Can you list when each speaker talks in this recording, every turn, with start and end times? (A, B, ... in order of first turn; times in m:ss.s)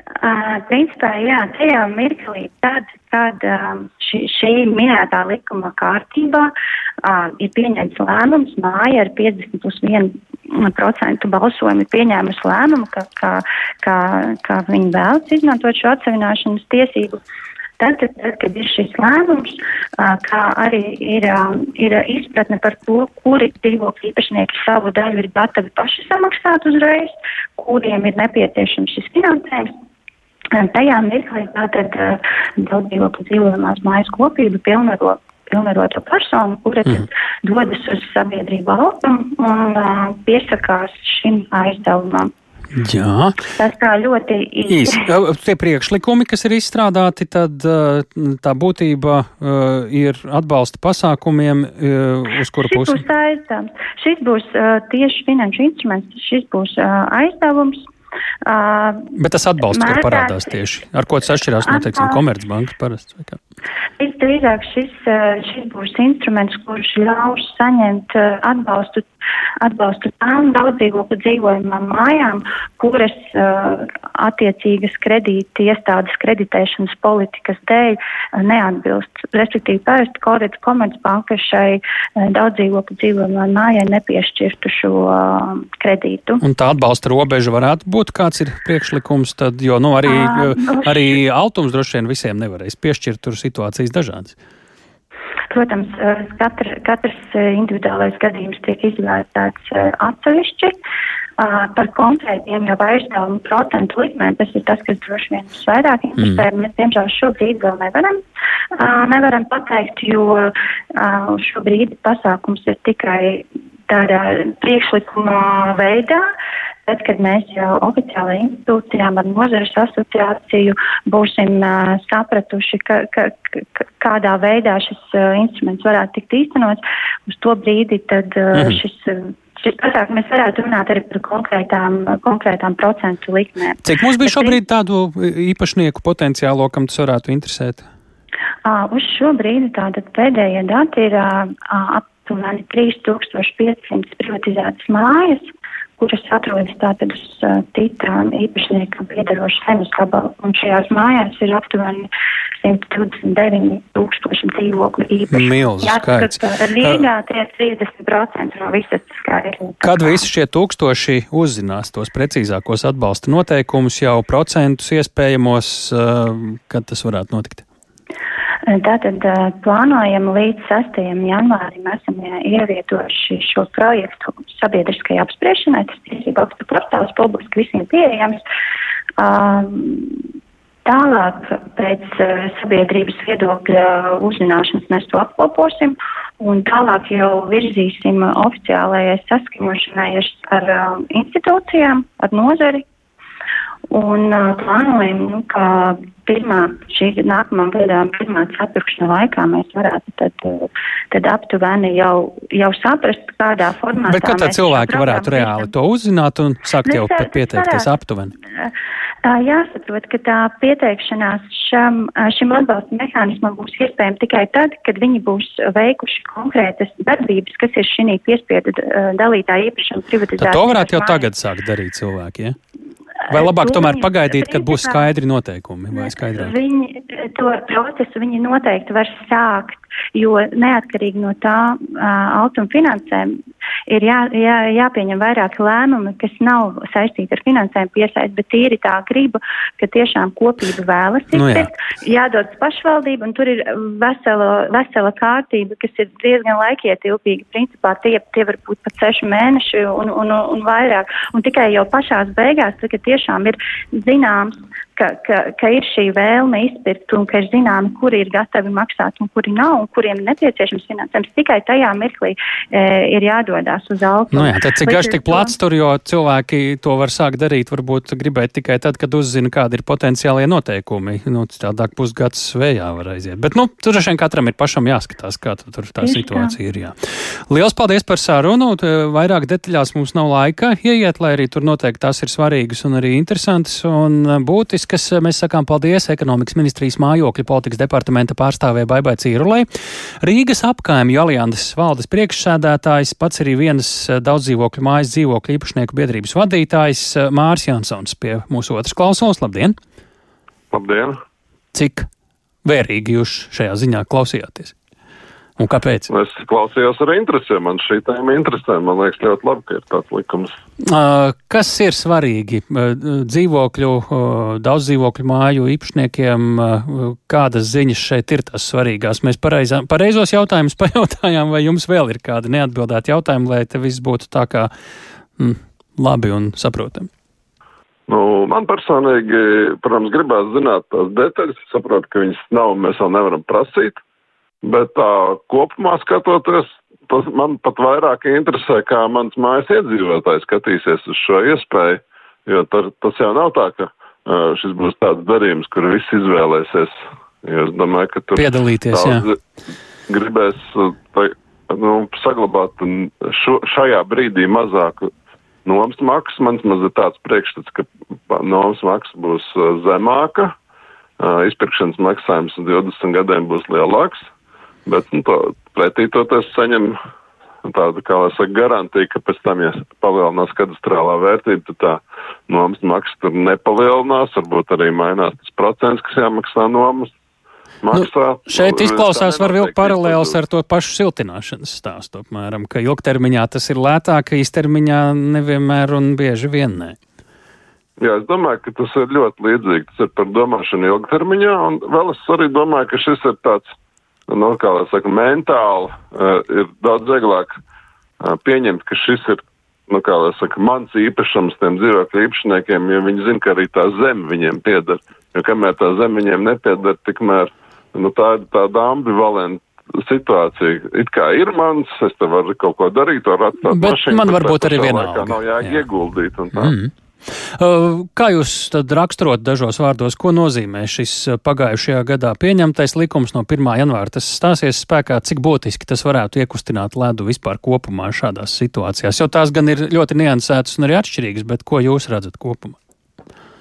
0:00.2-0:06.5 A
0:07.0-0:17.2 A
0:17.8-0:29.7 A
0:30.5-0:42.3 A
0:42.7-0:43.4 B
0:43.6-0:45.1 A
0:44.7-0:53.0 B
0:52.6-0:57.8 A
0:58.4-0:59.1 A
0:59.1-1:03.4 B
0:59.6-1:00.5 A
1:01.6-1:02.2 A
1:04.0-1:09.0 A
1:09.6-1:26.4 A
1:26.4-1:34.4 B
1:30.0-1:31.2 A
1:35.5-1:40.7 A
1:41.4-1:48.2 A
1:48.7-1:56.2 A
1:56.8-2:14.6 A
2:08.5-2:08.8 B
2:13.8-2:17.8 B
2:18.6-2:32.1 A
2:32.6-2:40.2 A
2:35.3-2:37.0 B
2:39.8-2:47.6 B
2:48.7-2:58.4 A
2:59.2-3:00.2 A
3:00.8-3:12.8 A
3:13.9-3:25.7 A
3:24.0-3:28.3 B
3:26.8-3:27.9 A
3:28.6-3:41.3 A
3:40.4-3:42.5 B
3:43.2-3:45.1 A
3:43.3-3:46.5 B
3:45.9-3:53.4 A
3:53.9-4:25.5 A
4:01.3-4:01.7 B
4:24.3-4:36.9 B
4:36.0-4:36.5 A
4:37.5-4:49.7 B
4:50.2-4:59.8 B
5:00.7-5:01.2 C
5:01.7-5:02.1 B
5:02.6-5:04.7 B
5:05.6-5:06.1 B
5:06.1-5:10.5 C
5:10.8-5:24.7 B
5:25.4-5:27.1 B
5:28.1-5:34.0 C
5:34.6-5:49.4 C
5:48.3-5:49.2 B
5:50.1-5:55.1 C
5:55.6-6:00.5 C
6:01.2-6:04.2 C
6:04.8-6:07.0 C
6:07.6-6:17.1 C
6:17.8-6:20.4 C
6:17.9-6:27.0 B
6:28.0-6:33.7 C
6:34.3-6:37.5 C
6:38.2-6:56.7 C
6:53.6-6:55.8 B
6:56.5-7:12.8 B